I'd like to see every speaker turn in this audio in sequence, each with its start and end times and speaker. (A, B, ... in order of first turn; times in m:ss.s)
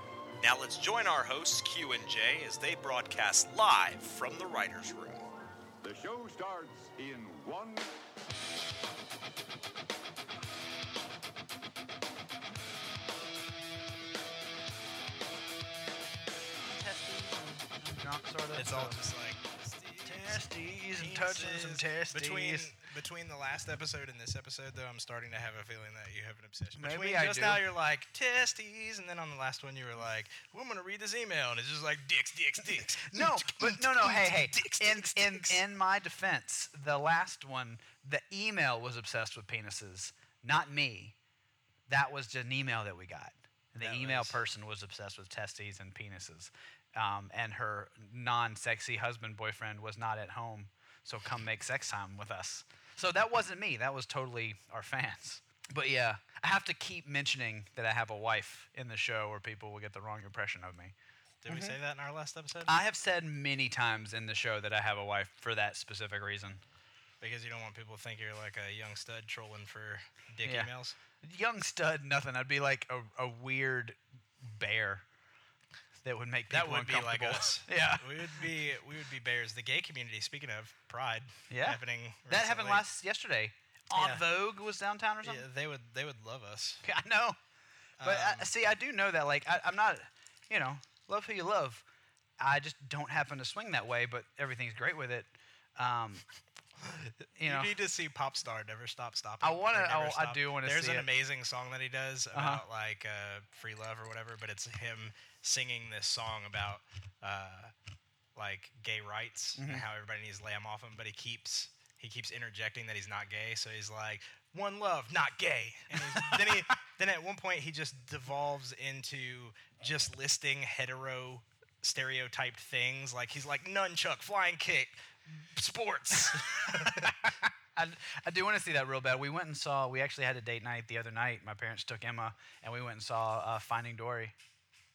0:00.4-0:05.3 A
0:05.8-0:08.0 B
0:16.6-0:19.0 C
0:18.6-0:20.4 D
0:20.0-0:22.7 C
0:21.0-0:35.6 D
0:26.8-0:27.6 C
0:32.7-0:41.2 C
0:41.9-1:01.0 C
0:43.8-0:44.4 D
1:01.4-1:02.7 D
1:01.5-1:01.8 C
1:02.7-1:06.6 C
1:07.2-1:11.0 D
1:10.4-1:10.7 C
1:11.2-1:15.0 C
1:16.0-1:18.5 C
1:16.5-1:22.8 D
1:21.5-1:25.5 C
1:24.0-1:24.2 D
1:25.2-1:26.8 D
1:26.8-1:27.4 C
1:28.0-1:28.5 D
1:28.0-1:31.8 C
1:32.4-1:36.2 C
1:36.8-1:47.7 D
1:37.4-1:37.7 C
1:39.4-1:41.1 C
1:42.3-1:42.6 C
1:48.4-2:07.3 D
1:49.6-1:49.8 C
1:55.9-1:56.7 C
2:06.3-2:07.1 C
2:07.8-2:14.4 C